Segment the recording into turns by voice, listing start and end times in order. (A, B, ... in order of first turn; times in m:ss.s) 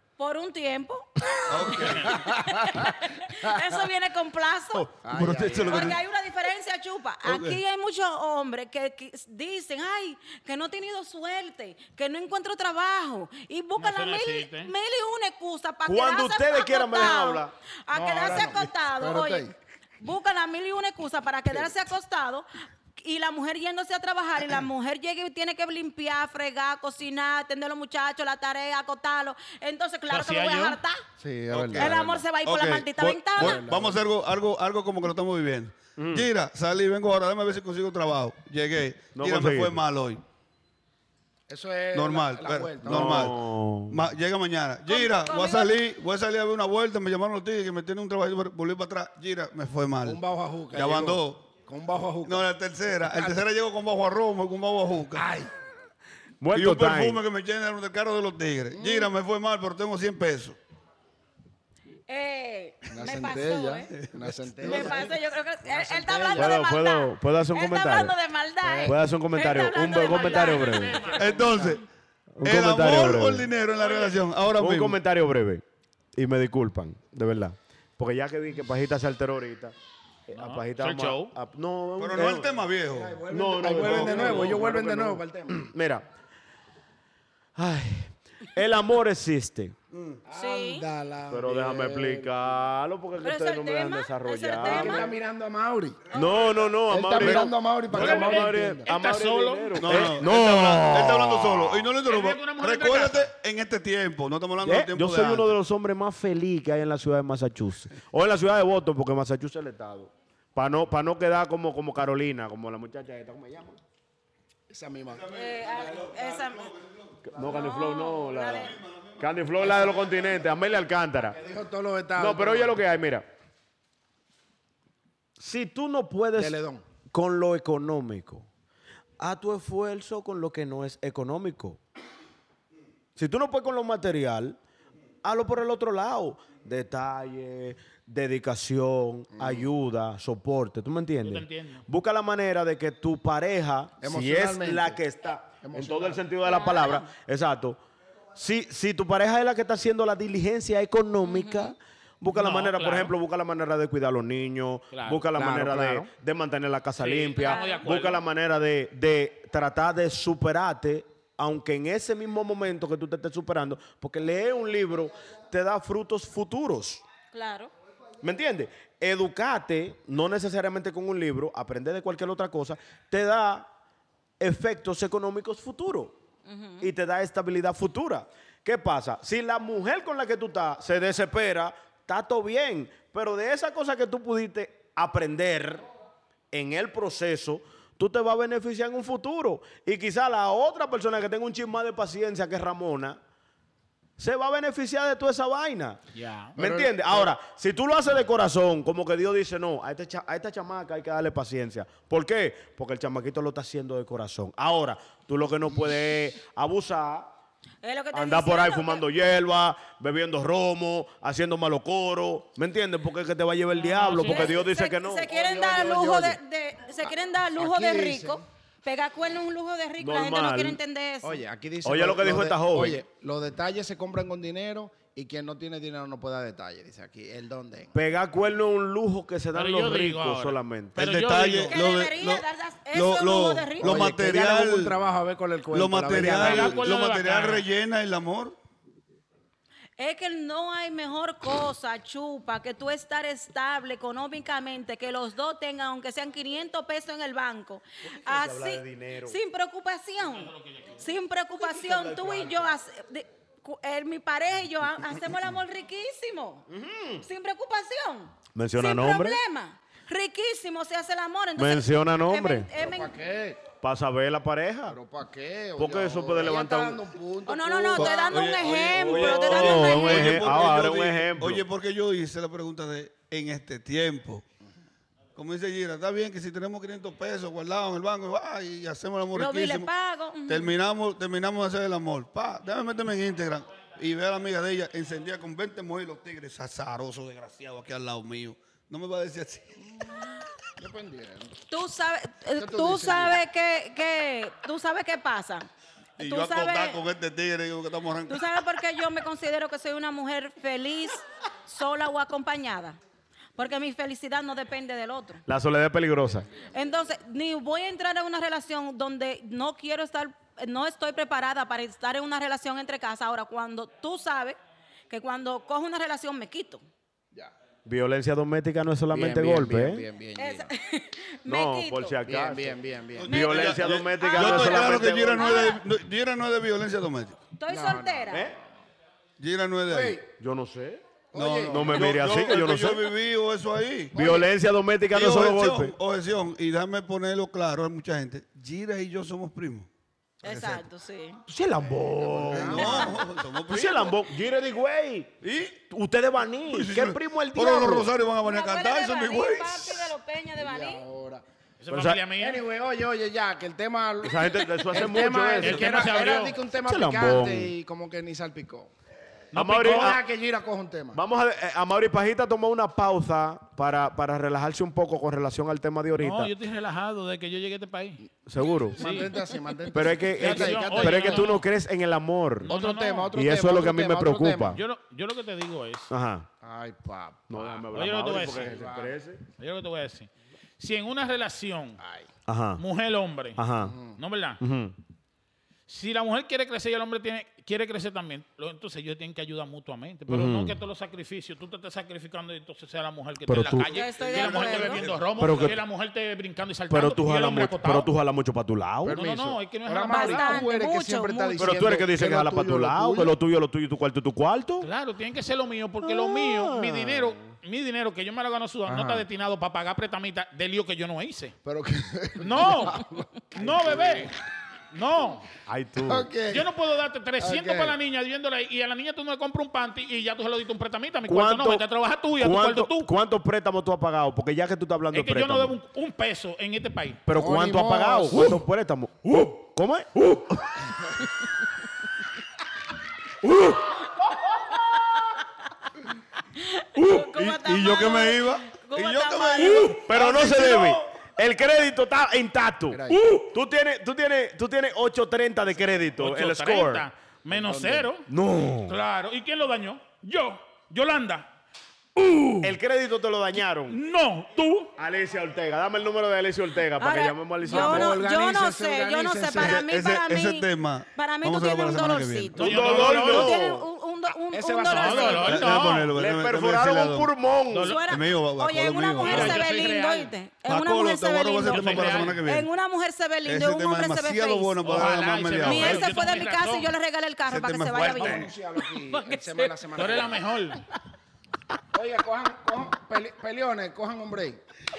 0:00.2-0:04.9 A
0:01.5-0:02.2 B
0:02.2-0:03.8 C
0:05.0-0:06.0 C
0:05.1-0:06.0 B
0:05.1-0:05.6 D
0:05.7-0:31.0 A
0:07.2-0:07.6 B
0:13.8-0:14.7 E
0:15.8-0:17.5 D
0:17.9-0:19.5 C
0:30.1-0:30.8 E
0:31.2-0:31.9 C
0:31.5-0:40.2 B
0:31.8-0:33.6 A
0:33.4-0:34.0 C
0:36.0-0:36.3 D
0:39.1-0:39.8 D
0:41.5-0:43.4 C
0:41.9-0:50.2 B
0:42.8-0:44.0 D
0:44.9-0:45.8 A
0:50.0-0:52.4 C
0:50.7-0:51.5 B
0:52.2-0:55.2 B
0:53.0-0:53.4 C
0:55.1-0:55.5 C
0:56.4-0:57.2 D
0:56.5-1:00.6 B
0:58.7-0:59.1 C
1:02.1-1:03.9 A
1:02.9-1:06.5 C
1:03.9-1:05.1 B
1:04.6-1:11.1 A
1:06.4-1:08.1 D
1:08.6-1:09.0 C
1:08.8-1:11.1 D
1:09.8-1:11.4 E
1:11.1-1:11.8 B
1:11.2-1:11.8 C
1:12.4-1:13.5 D
1:12.4-1:15.0 B
1:13.8-1:14.1 E
1:14.6-1:15.6 D
1:16.1-1:19.7 D
1:20.3-1:22.6 D
1:20.3-1:21.3 E
1:22.0-1:24.6 B
1:22.9-1:25.7 C
1:23.3-1:26.1 D
1:27.6-1:29.8 D
1:29.9-1:30.2 B
1:30.3-1:32.5 C
1:30.4-1:30.9 A
1:31.3-1:35.1 D
1:33.2-1:35.1 A
1:34.6-1:36.1 C
1:36.1-1:36.5 A
1:36.1-1:41.9 D
1:36.9-1:38.9 C
1:37.2-1:37.5 B
1:37.9-1:40.2 E
1:39.8-1:45.6 B
1:42.0-1:43.3 E
1:44.6-1:53.8 D
1:54.7-1:55.2 C
1:55.1-1:57.3 B
1:55.3-1:56.7 A
1:57.3-2:01.4 D
1:57.4-1:58.8 A
1:58.5-1:59.7 B
1:59.6-2:00.1 C
2:01.2-2:02.8 C
2:02.2-2:03.3 D
2:05.4-2:06.6 D
2:06.3-2:06.8 C
2:07.1-2:08.5 D
2:09.2-2:11.8 D
2:13.2-2:14.6 D
2:15.2-2:27.8 D
2:19.3-2:19.7 C
2:21.2-2:21.8 E
2:24.0-2:25.0 C
2:25.6-2:26.2 C
2:26.4-2:27.1 A
2:28.3-2:47.0 D
2:31.2-2:31.7 A
2:32.3-2:33.1 E
2:34.9-2:35.2 E
2:35.3-2:36.1 C
2:37.0-2:38.2 E
2:37.4-2:37.9 A
2:47.3-2:47.7 A
2:48.2-2:53.7 D
2:54.4-2:56.2 D
2:56.4-2:56.9 A
2:56.8-3:05.8 D
3:06.5-3:13.2 D
3:14.2-3:16.0 D
3:16.1-3:16.5 E
3:16.6-3:17.3 C
3:16.6-3:27.3 D
3:27.8-3:29.0 A
3:28.1-3:36.4 D
3:33.8-3:34.6 E
3:34.2-3:41.4 A
3:37.6-3:38.4 C
3:40.0-3:40.8 D
3:41.2-3:47.9 C
3:41.8-3:43.0 D
3:47.9-3:51.0 D
3:49.5-3:51.7 E
3:51.0-3:55.0 B
3:51.7-3:54.1 A
3:53.8-3:56.9 C
3:55.7-3:58.6 B
3:56.1-3:57.6 E
4:00.0-4:16.6 A
4:08.2-4:09.4 D
4:10.2-4:11.0 E
4:11.6-4:12.7 D
4:16.7-4:17.2 D
4:17.2-4:23.1 A
4:18.5-4:19.4 D
4:21.6-4:22.7 D
4:22.8-4:23.6 C
4:23.8-4:25.0 D
4:24.8-4:29.3 C
4:25.8-4:27.0 D
4:27.5-4:30.5 A
4:28.0-4:34.4 B
4:29.2-4:31.6 D
4:35.3-4:39.9 B
4:39.3-4:40.7 A
4:40.5-4:49.8 B
4:49.8-4:50.2 C
4:50.8-4:51.6 C
4:51.7-4:55.7 A
4:52.6-4:53.4 C
4:56.2-4:58.4 B
4:56.2-4:57.0 A
4:58.3-5:03.0 A
5:03.6-5:05.4 A
5:05.4-5:06.5 D
5:06.6-5:14.6 A
5:15.1-5:16.8 A
5:17.8-5:20.0 D
5:19.1-5:20.7 C
5:20.4-5:22.2 A
5:21.4-5:25.7 D
5:22.2-5:23.7 C
5:23.2-5:27.4 B
5:23.3-5:25.8 A
5:27.6-5:28.5 A
5:27.7-5:28.7 C
5:29.4-5:30.2 B
5:29.9-5:30.2 C
5:30.3-5:31.0 D
5:31.3-5:32.2 C
5:31.3-5:34.2 B
5:31.7-5:33.2 D
5:34.1-5:34.5 C
5:34.1-5:35.9 D
5:35.1-5:39.9 B
5:40.4-5:41.4 A
5:40.4-5:40.8 B
5:41.5-5:48.1 D
5:41.8-5:43.2 C
5:42.5-5:44.2 B
5:42.7-5:43.1 A
5:45.4-5:45.8 B
5:46.7-5:50.1 B
5:48.4-5:51.0 A
5:50.6-5:51.4 C
5:51.8-5:52.6 E
5:51.9-5:52.2 D
5:52.4-5:58.9 C
5:54.2-5:56.0 D
5:55.6-5:56.6 E
5:56.8-5:57.7 D
5:59.5-6:00.2 E
5:59.5-6:00.2 D
5:59.7-6:01.2 C
6:01.1-6:06.5 D
6:06.2-6:08.2 E
6:08.5-6:09.2 D
6:09.0-6:11.6 C
6:09.0-6:09.4 E
6:09.9-6:12.7 D
6:10.4-6:11.7 E
6:12.6-6:13.3 E
6:12.7-6:14.8 C
6:13.3-6:14.8 D
6:14.7-6:16.1 E
6:16.1-6:16.5 D
6:16.6-6:19.2 C
6:17.5-6:19.4 D
6:17.9-6:18.8 E
6:19.6-6:22.0 E
6:22.0-6:22.3 C
6:22.5-6:22.8 D
6:22.8-6:23.6 E
6:23.6-6:24.0 D
6:23.8-6:24.2 C
6:24.1-6:24.6 E
6:24.6-6:25.0 D
6:25.9-6:38.1 E
6:30.3-6:30.7 D
6:33.5-6:34.0 D
6:33.8-6:35.6 B
6:33.9-6:35.0 A
6:35.4-6:35.8 D
6:36.9-6:39.2 D
6:39.0-6:43.3 C
6:39.0-6:40.6 E
6:40.1-6:41.9 A
6:41.6-6:44.9 D
6:44.8-6:51.5 E
6:46.0-6:47.5 D
6:48.8-6:49.3 C
6:51.6-6:54.3 C
6:52.4-6:54.3 E
6:54.9-6:55.5 E
6:55.7-6:56.3 D
6:56.0-6:56.7 C
6:56.5-7:03.1 E
6:57.4-6:58.0 C
7:01.3-7:01.8 D
7:02.4-7:05.8 D
7:05.1-7:07.2 E
7:07.2-7:11.3 D
7:07.3-7:08.6 C
7:13.4-7:14.1 D
7:16.5-7:20.0 A
7:17.0-7:17.2 D
7:17.3-7:21.1 B
7:19.6-7:27.1 D
7:22.9-7:23.2 C
7:26.2-7:28.3 E
7:27.5-7:28.1 C
7:28.3-7:28.9 D
7:28.9-7:31.5 E
7:32.2-7:32.8 E
7:32.6-7:34.0 D
7:33.5-7:34.9 E
7:35.0-7:38.2 D
7:37.0-7:45.8 A
7:37.6-7:39.8 C
7:39.6-7:42.6 B
7:42.5-7:43.8 D
7:42.6-7:43.7 E
7:44.3-7:45.7 C
7:44.9-7:46.1 E
7:45.4-7:47.3 B
7:46.1-7:48.0 D
7:47.7-7:48.0 E
7:47.8-7:59.8 A
7:48.0-7:49.7 B
7:49.2-7:50.3 E
7:50.7-7:52.7 B
7:51.6-7:52.4 E
7:53.4-7:56.2 B
7:54.8-7:56.9 E
7:57.5-7:58.5 B
7:58.2-7:58.5 E
7:58.2-8:00.4 C
7:59.9-8:00.8 E
8:01.9-8:04.6 C